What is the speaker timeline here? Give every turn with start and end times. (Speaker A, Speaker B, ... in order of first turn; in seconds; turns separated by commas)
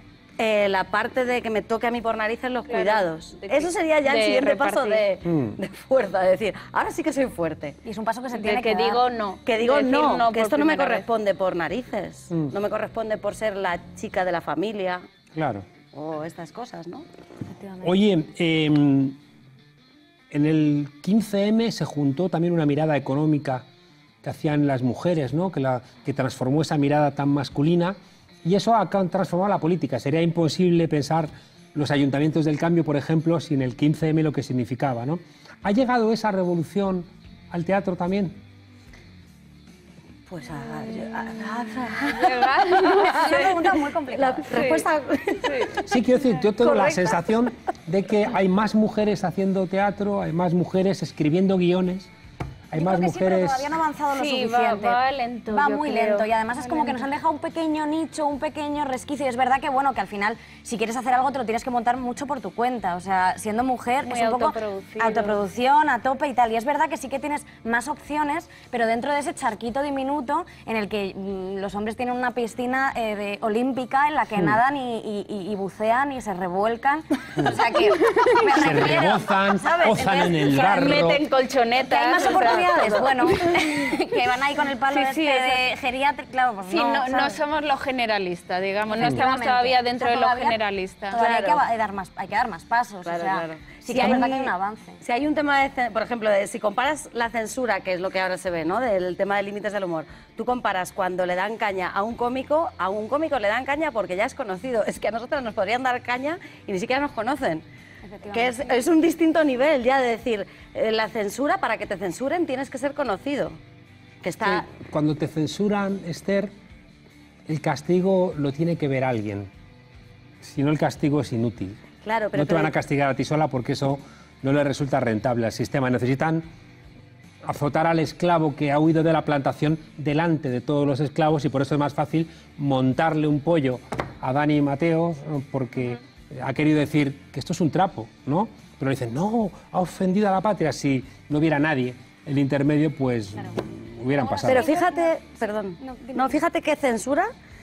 Speaker A: 0.4-7.8, Speaker B: 2.7-5.1, Speaker C: 5.3-5.6, Speaker D: 7.8-9.0, Speaker B: 8.3-11.1, Speaker A: 9.5-15.0, Speaker C: 15.3-15.7, Speaker A: 15.9-17.1, Speaker D: 17.5-17.9, Speaker C: 17.8-19.2, Speaker C: 20.3-23.6, Speaker C: 24.2-38.4, Speaker A: 40.3-46.0, Speaker B: 42.0-43.6, Speaker D: 43.0-44.7, Speaker B: 44.5-44.9, Speaker B: 45.4-45.8, Speaker C: 45.8-52.1, Speaker A: 46.5-47.2, Speaker C: 52.7-53.8, Speaker D: 52.7-55.0, Speaker B: 54.1-57.1, Speaker D: 55.5-80.8, Speaker B: 64.0-65.4, Speaker C: 78.5-81.2, Speaker B: 80.5-82.7, Speaker D: 81.8-87.4, Speaker A: 82.3-83.7, Speaker B: 84.8-85.6, Speaker B: 86.6-91.2, Speaker D: 88.9-90.6, Speaker A: 91.1-91.6, Speaker D: 91.1-95.0, Speaker A: 93.0-107.6, Speaker D: 108.1-108.8, Speaker A: 108.3-113.6, Speaker A: 114.2-114.7, Speaker C: 114.4-116.5, Speaker C: 117.5-119.5, Speaker C: 120.4-121.8, Speaker A: 122.0-122.7, Speaker C: 122.3-126.5, Speaker C: 127.4-144.7, Speaker D: 144.2-146.4, Speaker A: 144.4-147.3